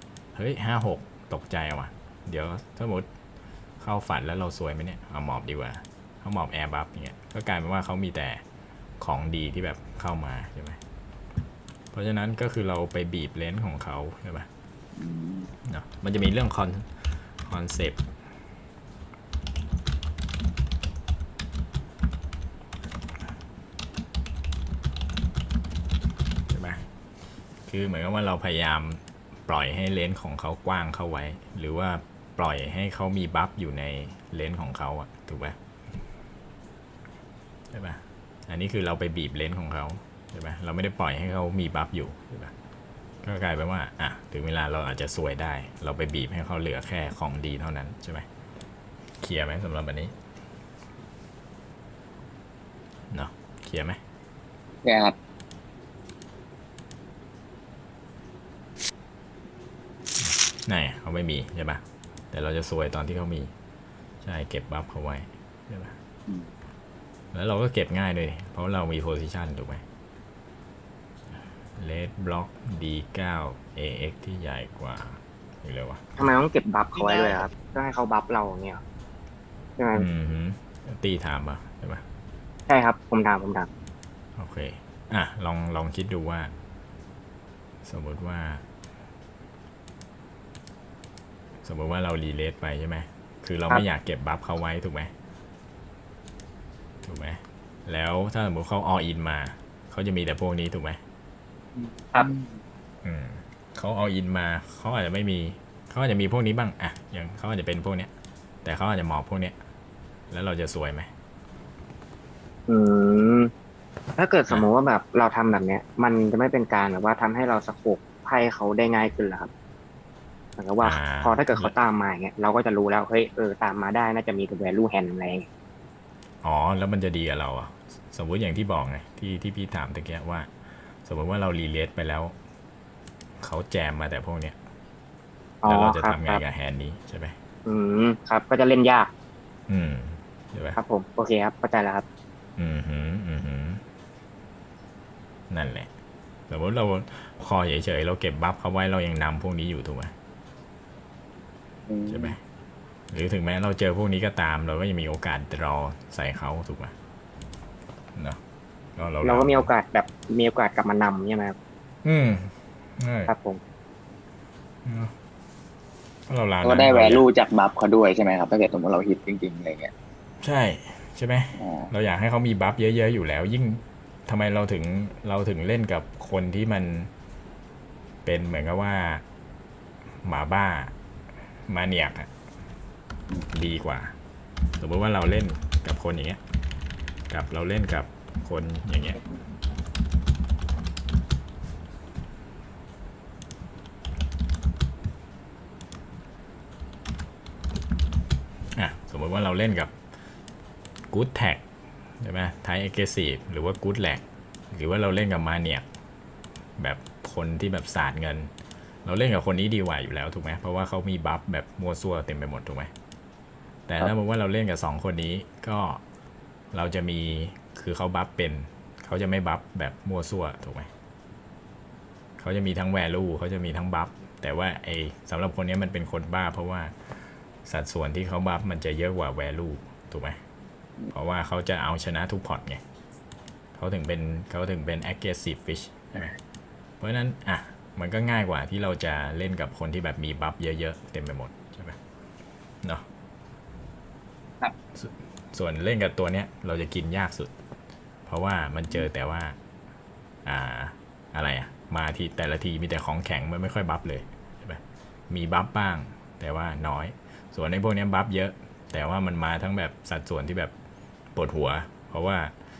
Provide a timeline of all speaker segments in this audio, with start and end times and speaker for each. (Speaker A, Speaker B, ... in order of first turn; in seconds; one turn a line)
Speaker A: 0.3-3.1
Speaker A: 3.8-8.4
Speaker A: 9.0-10.8
Speaker A: 11.9-14.5
Speaker B: 14.9-15.5
Speaker A: 15.6-18.0
Speaker A: 26.5-26.8
Speaker A: 27.6-35.5
Speaker A: 37.7-42.5
Speaker A: 43.2-48.2
Speaker A: 49.2-50.1
Speaker A: 53.1-54.0
Speaker B: 54.8-55.1
Speaker A: 60.2-63.5
Speaker A: 64.2-65.9
Speaker A: 67.3-69.8
Speaker A: 71.8-76.2
Speaker C: 76.2-78.8
Speaker C: 79.8-80.1
Speaker A: 79.9-82.0
Speaker C: 82.7-83.7
Speaker A: 84.3-86.5
Speaker A: 87.8-88.6
Speaker A: 91.6-95.1
Speaker A: 97.0-101.0
Speaker B: 101.8-102.6
Speaker A: 103.0-108.1
Speaker A: 108.6-109.6
Speaker A: 110.3-111.1
Speaker C: 112.7-113.5
Speaker C: 114.2-119.5
Speaker C: 120.6-125.5
Speaker A: 120.8-121.7
Speaker A: 126.4-132.3
Speaker A: 133.4-134.6
Speaker C: 135.6-136.4
Speaker A: 135.6-137.3
Speaker C: 137.7-139.1
Speaker A: 139.7-140.8
Speaker C: 140.8-142.0
Speaker A: 142.6-143.8
Speaker A: 145.5-145.9
Speaker A: 146.5-150.1
Speaker B: 151.9-152.3
Speaker A: 152.1-152.4
Speaker A: 153.1-156.9
Speaker A: 159.0-159.7
Speaker C: 159.2-161.6
Speaker A: 162.0-163.3
Speaker C: 163.3-163.6
Speaker A: 164.8-165.1
Speaker A: 166.3-167.2
Speaker B: 166.6-169.9
Speaker A: 170.4-177.1
Speaker B: 171.6-171.9
Speaker A: 178.2-179.2
Speaker A: 180.2-180.9
Speaker A: 181.7-182.3
Speaker A: 183.5-184.1
Speaker A: 184.8-186.4
Speaker A: 187.3-189.2
Speaker A: 198.7-199.9
Speaker A: 201.1-201.6
Speaker A: 202.2-205.8
Speaker A: 206.8-208.5
Speaker A: 209.0-212.9
Speaker A: 213.9-216.0
Speaker A: 216.7-220.9
Speaker A: 222.4-230.4
Speaker A: 231.1-232.8
Speaker A: 233.8-236.3
Speaker A: 237.0-242.0
Speaker A: 244.9-247.5
Speaker A: 248.3-249.6
Speaker A: 250.4-260.7
Speaker A: 261.3-262.5